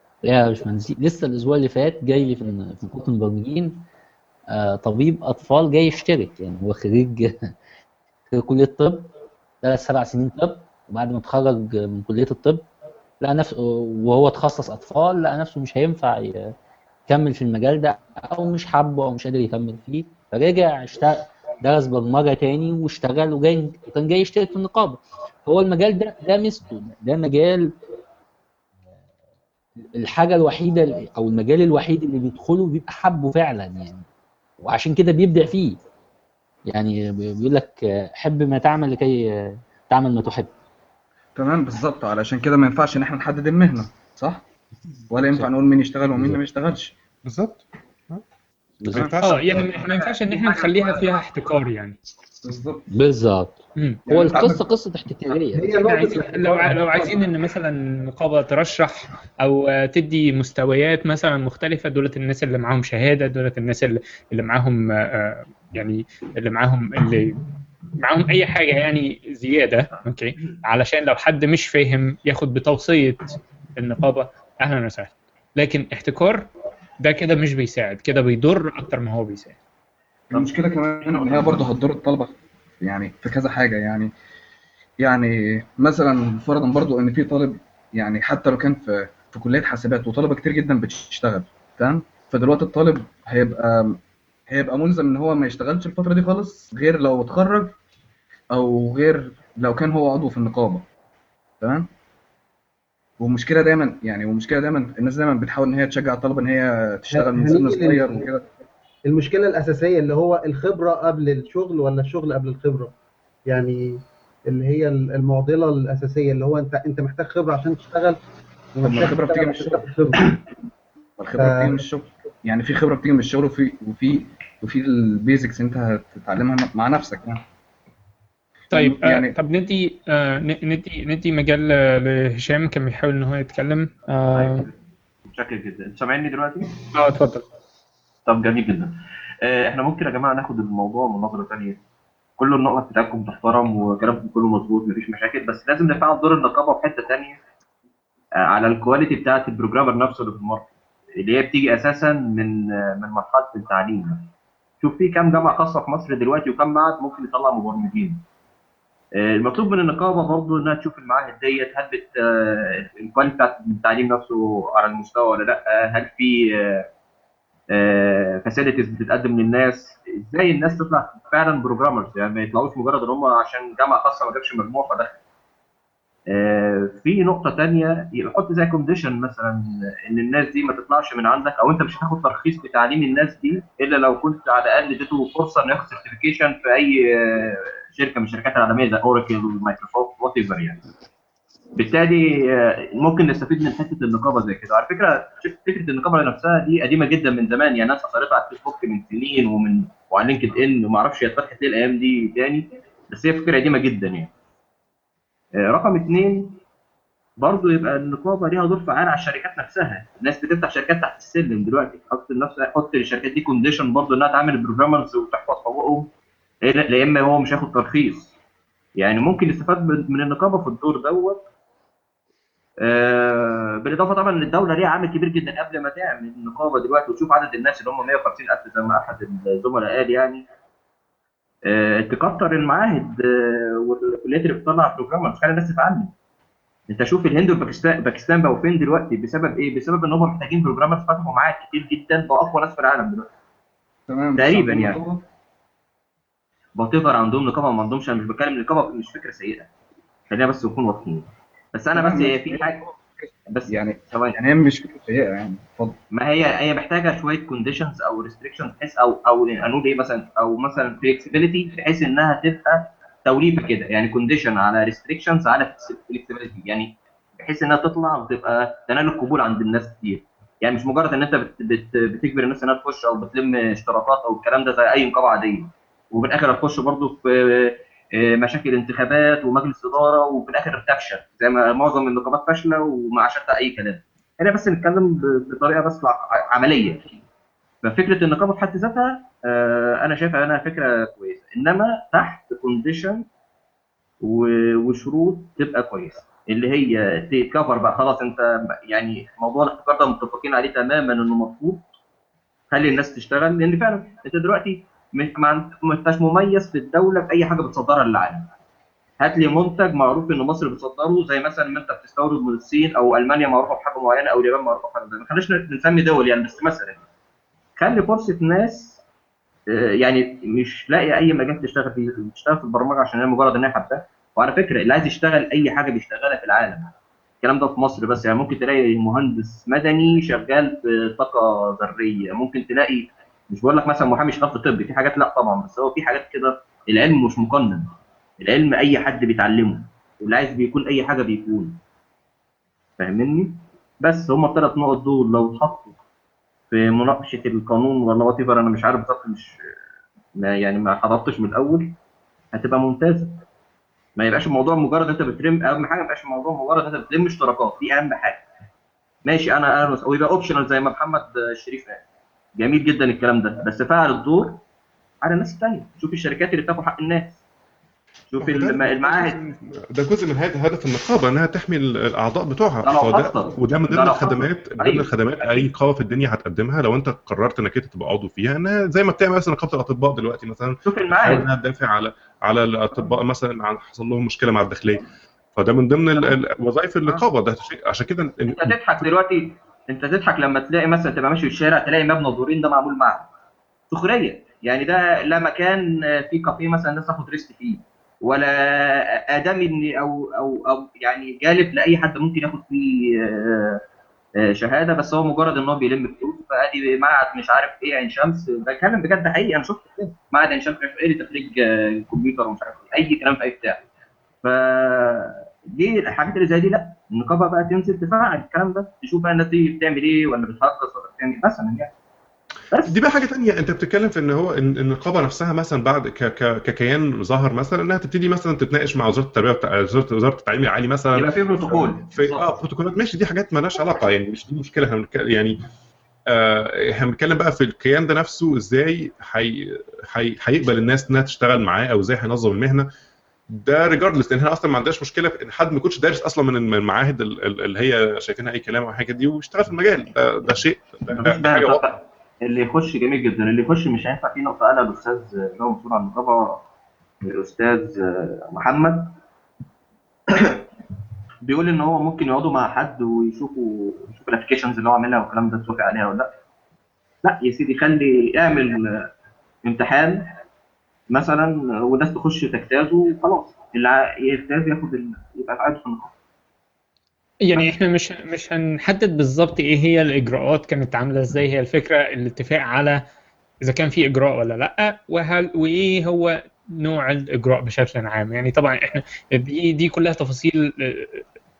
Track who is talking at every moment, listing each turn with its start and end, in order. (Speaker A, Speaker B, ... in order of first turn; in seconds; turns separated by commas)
Speaker A: 0.2-3.9, Speaker A: 4.5-7.5, Speaker A: 8.3-9.1, Speaker A: 9.6-12.7, Speaker A: 13.2-16.5, Speaker A: 17.1-27.7, Speaker A: 29.9-34.0, Speaker A: 34.6-35.8, Speaker A: 36.7-40.5, Speaker B: 41.4-44.5, Speaker B: 45.1-46.9, Speaker A: 46.1-46.4, Speaker C: 47.2-48.2, Speaker A: 48.8-49.1, Speaker C: 48.9-49.6, Speaker B: 48.9-49.2, Speaker D: 49.2-52.0, Speaker E: 49.3-51.1, Speaker B: 52.4-52.9, Speaker A: 52.9-55.7, Speaker D: 53.8-54.0, Speaker B: 54.1-54.6, Speaker F: 55.5-57.1, Speaker D: 55.8-67.4, Speaker D: 68.0-79.6, Speaker B: 80.3-84.1, Speaker E: 81.2-81.6, Speaker B: 85.0-97.7, Speaker B: 98.5-100.9, Speaker B: 101.6-101.9, Speaker B: 103.2-108.4, Speaker F: 107.1-108.3, Speaker F: 109.0-112.9, Speaker F: 113.5-118.2, Speaker F: 118.8-120.4, Speaker B: 118.8-120.3, Speaker B: 121.2-127.4, Speaker F: 121.4-121.8, Speaker B: 128.7-129.3, Speaker D: 128.7-134.6, Speaker E: 134.3-134.7, Speaker E: 135.3-136.7, Speaker D: 136.9-137.4, Speaker E: 138.2-141.8, Speaker E: 142.4-147.4, Speaker E: 148.4-154.3, Speaker E: 154.8-158.2, Speaker E: 159.2-166.8, Speaker E: 167.7-175.2, Speaker E: 176.3-190.8, Speaker E: 191.8-204.3, Speaker E: 205.5-206.6, Speaker E: 207.4-216.1, Speaker E: 216.6-218.3, Speaker E: 219.0-221.5, Speaker E: 222.8-230.5, Speaker E: 231.7-236.1, Speaker E: 236.9-243.3, Speaker B: 244.1-245.2, Speaker E: 244.3-245.0, Speaker E: 246.8-249.7, Speaker E: 250.3-252.8, Speaker B: 251.9-253.0, Speaker E: 253.5-254.4, Speaker B: 253.7-256.0, Speaker E: 256.1-287.1, Speaker E: 287.8-293.2, Speaker E: 294.2-301.8, Speaker E: 302.7-308.5, Speaker E: 309.2-317.0, Speaker E: 317.8-319.0, Speaker E: 319.7-341.8, Speaker E: 343.0-345.9, Speaker E: 346.7-349.5, Speaker E: 350.4-352.0, Speaker E: 352.5-353.4, Speaker E: 354.2-358.5, Speaker E: 359.2-362.0, Speaker E: 362.6-364.6, Speaker E: 365.2-367.4, Speaker E: 368.3-369.4, Speaker C: 368.4-389.1, Speaker E: 372.8-375.7, Speaker E: 380.8-381.5, Speaker E: 388.5-393.3, Speaker E: 393.9-403.8, Speaker E: 404.4-413.8, Speaker E: 414.4-421.9, Speaker E: 422.7-423.0, Speaker C: 422.8-435.6, Speaker E: 431.1-432.5, Speaker C: 436.3-442.9, Speaker C: 443.5-451.9, Speaker E: 451.1-456.6, Speaker E: 457.2-459.2, Speaker E: 460.3-460.5, Speaker E: 461.4-466.3, Speaker E: 467.2-469.1, Speaker E: 469.6-470.3, Speaker E: 471.1-476.1, Speaker D: 477.4-483.0, Speaker D: 483.6-491.2